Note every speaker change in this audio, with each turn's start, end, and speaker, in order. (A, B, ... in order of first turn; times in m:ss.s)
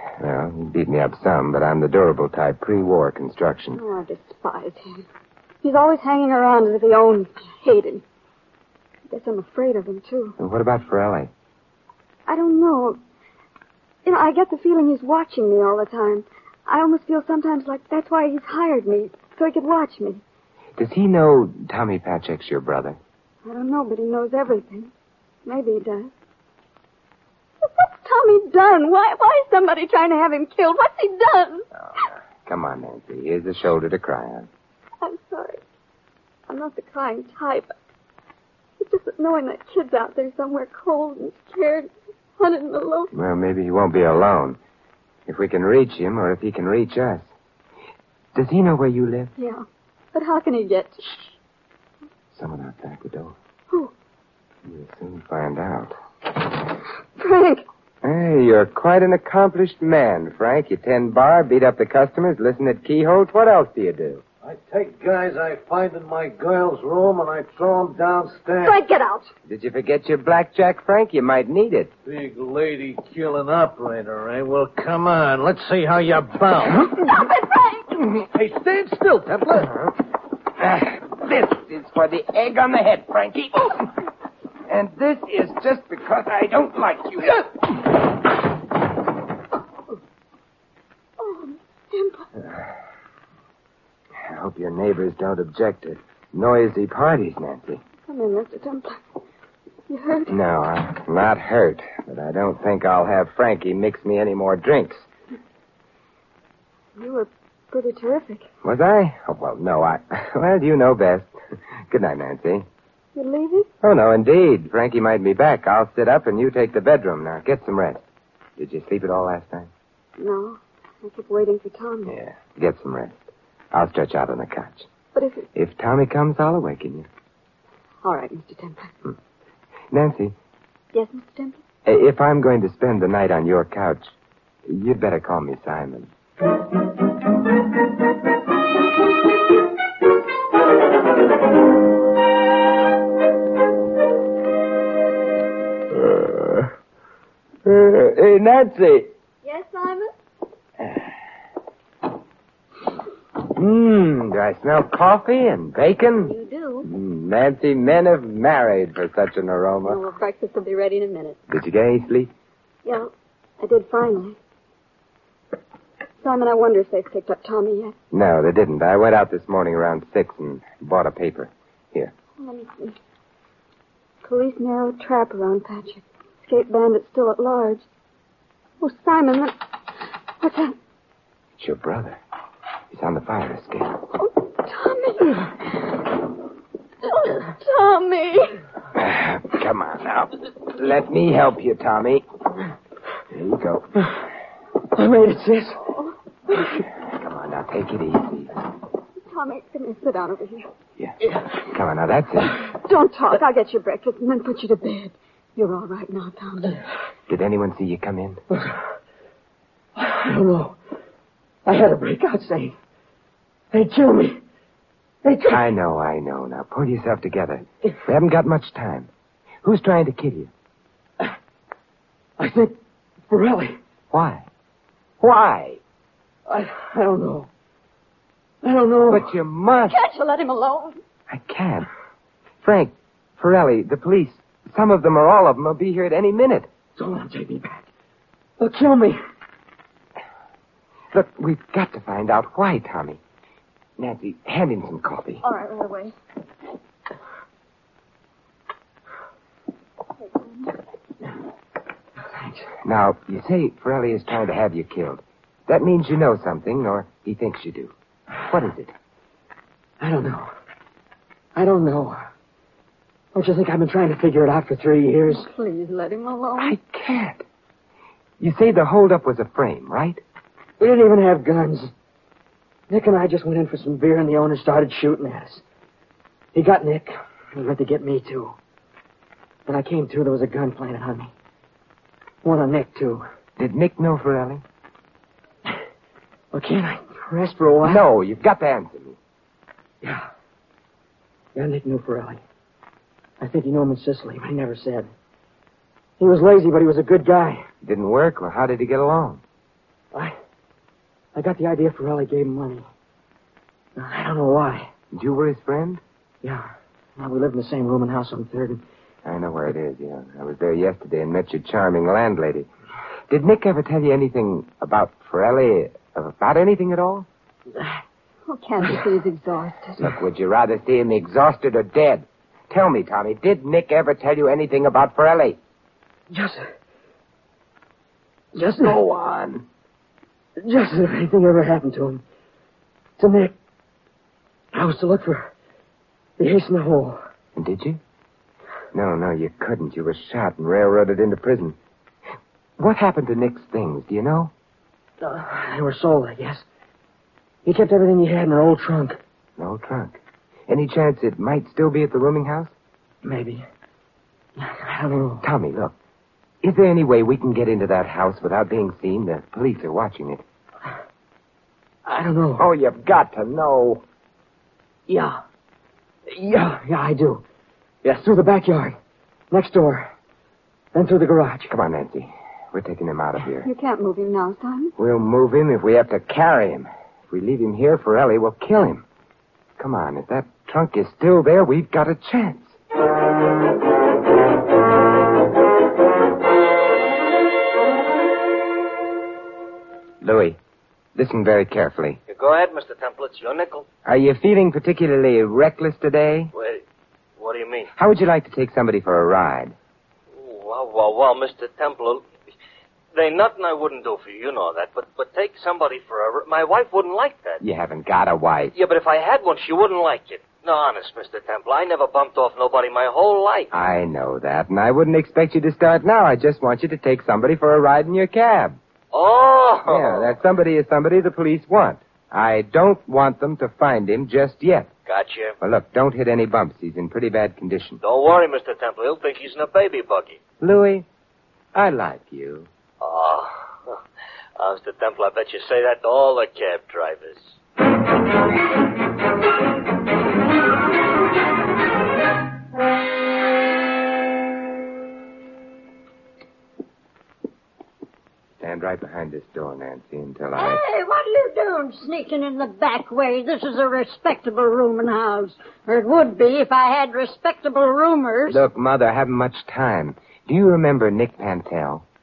0:00.2-0:03.8 A
0:03.7-0:05.0 B
0:05.6-0:08.0 B
0:09.1-0:10.4 B
0:10.4-0:11.3 A
0:12.3-0:13.0 B
0:14.0-0:20.2 B
0:20.8-0:23.0 A
0:23.4-0:24.9 B
0:25.4-0:26.1 B
0:27.6-0:31.7 B
0:31.8-0:34.5 A
0:35.0-0:35.6 B
0:36.5-0:37.7 B
0:38.8-0:43.1 B
0:43.1-0:44.6 A
0:45.3-0:47.3 A
0:48.4-0:49.3 A
0:49.4-0:51.3 B
0:52.3-0:53.4 A
0:54.6-0:55.9 A
0:57.2-0:57.6 B
0:58.0-1:04.2 A
1:04.4-1:08.8 C
1:08.6-1:09.3 B
1:09.5-1:11.9 A
1:12.0-1:16.9 C
1:16.8-1:18.0 B
1:18.2-1:19.8 C
1:20.6-1:23.9 A
1:24.7-1:27.6 A
1:31.2-1:32.3 B
1:34.2-1:37.8 A
1:38.1-1:39.0 B
1:39.9-1:40.3 B
1:40.3-1:45.1 A
1:47.0-1:48.5 B
1:48.6-1:51.3 A
1:51.9-1:52.7 A
1:53.2-1:53.7 B
1:53.8-1:58.0 A
1:58.6-1:59.7 A
2:00.2-2:02.2 B
2:02.1-2:04.9 A
2:05.1-2:05.5 B
2:05.5-2:07.1 A
2:08.0-2:08.9 B
2:09.9-2:10.4 A
2:10.9-2:11.6 B
2:11.8-2:14.1 A
2:14.7-2:16.1 A
2:25.9-2:26.7 A
2:27.6-2:29.1 A
2:29.4-2:30.2 B
2:33.4-2:40.0 A
2:36.2-2:36.9 B
2:39.8-2:41.4 B
2:41.5-2:42.3 A
2:42.8-2:44.4 B
2:46.2-2:48.0 B
2:48.1-2:52.1 A
2:52.4-2:53.0 B
2:54.2-2:57.8 B
2:58.8-2:59.5 B
3:00.4-3:00.8 B
3:01.6-3:02.2 A
3:02.9-3:04.0 A
3:04.2-3:05.8 B
3:07.1-3:08.6 B
3:08.9-3:12.2 A
3:13.3-3:13.9 A
3:14.9-3:15.8 D
3:16.9-3:18.5 A
3:19.3-3:20.7 B
3:21.0-3:22.6 A
3:22.8-3:26.8 B
3:27.3-3:28.4 A
3:30.0-3:30.8 D
3:31.6-3:32.8 D
3:33.7-3:34.4 D
3:35.2-3:35.6 D
3:35.5-3:39.1 A
3:39.6-3:40.5 A
3:42.4-3:42.7 D
3:43.3-3:43.8 D
3:44.1-3:44.5 A
3:45.2-3:45.8 A
3:46.5-3:47.5 D
3:48.6-3:49.3 D
3:49.1-3:50.0 A
3:49.9-3:51.0 B
3:51.3-3:51.9 A
3:52.6-3:56.7 A
3:57.0-3:57.9 D
3:58.6-3:59.2 D
4:01.1-4:03.2 A
4:04.0-4:05.4 A
4:05.4-4:06.1 B
4:12.3-4:12.7 D
4:12.8-4:17.9 A
4:18.5-4:18.9 A
4:20.0-4:20.5 D
4:21.6-4:22.2 D
4:23.3-4:25.5 D
4:25.3-4:26.8 B
4:26.6-4:27.4 A
4:28.4-4:30.2 A
4:30.8-4:31.9 D
4:32.9-4:35.6 D
4:36.5-4:38.6 D
4:39.7-4:41.3 D
4:42.4-4:43.2 D
4:43.6-4:44.6 A
4:46.5-4:48.0 D
4:47.8-4:49.2 A
4:51.6-4:52.4 D
4:53.4-4:55.1 D
4:56.2-4:57.6 D
4:57.8-4:59.4 A
5:01.3-5:02.9 D
5:04.0-5:04.9 D
5:05.1-5:06.0 A
5:06.4-5:08.8 D
5:09.2-5:12.7 A
5:13.3-5:17.3 A
5:17.7-5:18.0 D
5:18.5-5:20.1 B
5:20.0-5:25.6 A
5:26.3-5:26.6 D
5:28.6-5:29.0 D
5:28.8-5:29.6 A
5:30.6-5:32.2 D
5:33.2-5:33.5 D
5:34.7-5:35.5 D
5:36.4-5:37.2 D
5:37.6-5:38.0 A
5:38.9-5:41.8 A
5:42.8-5:44.5 A
5:45.2-5:46.6 D
5:47.6-5:49.2 D
5:49.6-5:52.7 A
5:53.2-5:53.6 D
5:54.6-5:55.4 D
5:55.4-5:56.0 A
5:56.6-6:00.4 A
6:02.1-6:02.7 D
6:02.6-6:04.0 A
6:05.1-6:05.4 D
6:06.3-6:07.4 D
6:08.0-6:09.0 D
6:09.5-6:10.1 D
6:10.9-6:11.7 D
6:11.7-6:13.7 A
6:13.6-6:14.9 B
6:15.0-6:19.0 A
6:19.8-6:22.8 A
6:30.2-6:30.6 A
6:31.2-6:32.2 A
6:32.3-6:33.9 E
6:34.0-6:36.5 A
6:36.5-6:36.8 E
6:37.4-6:37.9 E
6:38.0-6:39.8 A
6:40.3-6:42.3 E
6:43.1-6:47.6 E
6:47.6-6:48.7 A
6:48.8-6:53.7 E
6:53.7-6:58.8 A
6:59.1-7:00.4 E
6:59.8-7:04.9 A
7:05.1-7:05.6 E
7:05.6-7:08.0 A
7:08.0-7:10.4 E
7:10.6-7:11.1 A
7:11.7-7:12.7 A
7:13.0-7:14.0 E
7:14.6-7:17.6 E
7:28.6-7:30.8 A
7:30.6-7:38.6 F
7:38.5-7:42.0 A